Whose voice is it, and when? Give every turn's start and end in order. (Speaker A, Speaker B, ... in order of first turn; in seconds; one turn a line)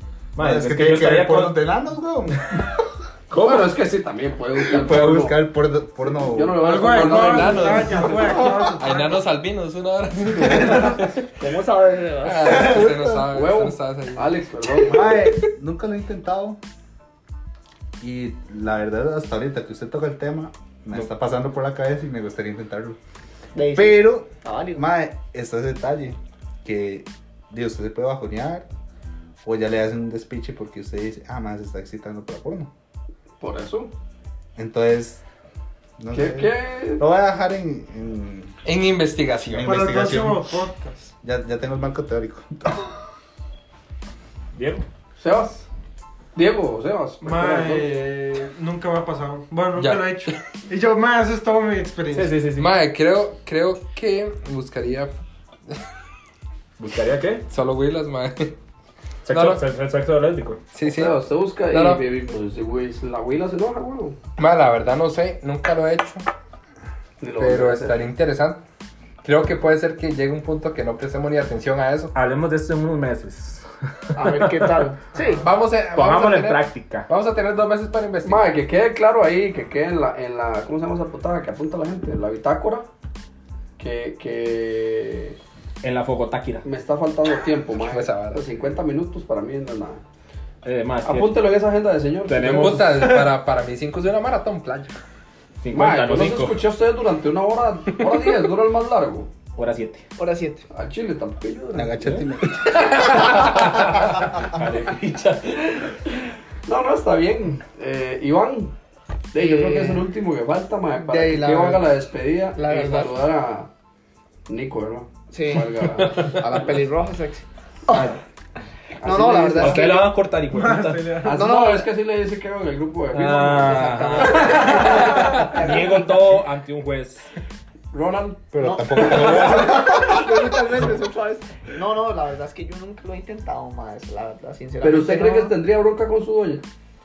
Speaker A: 0.4-1.6
Speaker B: 0.4-2.9
Speaker C: 3.3-5.5
Speaker A: 3.3-3.7
Speaker B: 4.7-6.7
Speaker C: 6.1-8.7
Speaker D: 6.6-9.2
Speaker E: 6.8-11.3
Speaker F: 11.4-12.9
Speaker E: 12.2-14.3
Speaker B: 12.4-13.2
Speaker C: 13.3-15.3
Speaker B: 14.9-16.6
Speaker B: 18.0-23.0
Speaker F: 23.6-24.9
Speaker B: 23.7-28.7
Speaker B: 29.4-32.7
Speaker C: 33.4-33.9
Speaker B: 34.6-35.2
Speaker B: 36.0-38.6
Speaker C: 36.1-37.0
Speaker E: 38.6-39.9
Speaker B: 39.5-40.5
Speaker D: 39.6-41.1
Speaker B: 41.2-42.9
Speaker A: 44.5-44.9
Speaker C: 45.2-45.7
Speaker C: 46.4-47.9
Speaker D: 47.2-52.5
Speaker E: 49.8-50.4
Speaker A: 52.1-52.7
Speaker E: 52.6-55.1
Speaker A: 56.8-57.5
Speaker E: 57.5-58.5
Speaker A: 59.2-60.6
Speaker E: 59.3-59.6
Speaker E: 60.7-62.0
Speaker C: 60.9-64.2
Speaker E: 64.4-66.2
Speaker C: 67.2-68.1
Speaker E: 67.4-68.6
Speaker E: 69.2-72.1
Speaker A: 72.1-74.8
Speaker F: 74.2-75.4
Speaker E: 75.3-78.5
Speaker A: 75.9-77.1
Speaker C: 78.2-82.9
Speaker C: 83.8-85.4
Speaker A: 85.8-86.7
Speaker C: 86.7-90.0
Speaker E: 87.8-88.4
Speaker A: 90.6-91.5
Speaker C: 91.0-92.9
Speaker A: 92.3-93.1
Speaker E: 92.4-95.0
Speaker A: 95.6-96.6
Speaker C: 95.7-99.3
Speaker A: 99.5-100.0
Speaker F: 100.2-100.7
Speaker C: 100.7-102.2
Speaker B: 101.7-102.8
Speaker A: 102.7-105.9
Speaker E: 103.0-103.6
Speaker C: 106.7-108.7
Speaker C: 109.3-113.7
Speaker F: 109.4-110.0
Speaker F: 111.0-111.9
Speaker F: 112.6-113.1
Speaker C: 114.5-116.6
Speaker F: 115.3-118.2
Speaker C: 119.0-120.0
Speaker F: 119.0-120.2
Speaker A: 119.6-121.1
Speaker D: 120.5-121.4
Speaker C: 121.2-125.2
Speaker F: 121.3-121.9
Speaker A: 123.1-127.3
Speaker F: 123.6-126.3
Speaker C: 127.9-128.4
Speaker A: 128.5-130.0
Speaker B: 128.6-130.6
Speaker F: 128.6-135.5
Speaker C: 134.8-136.6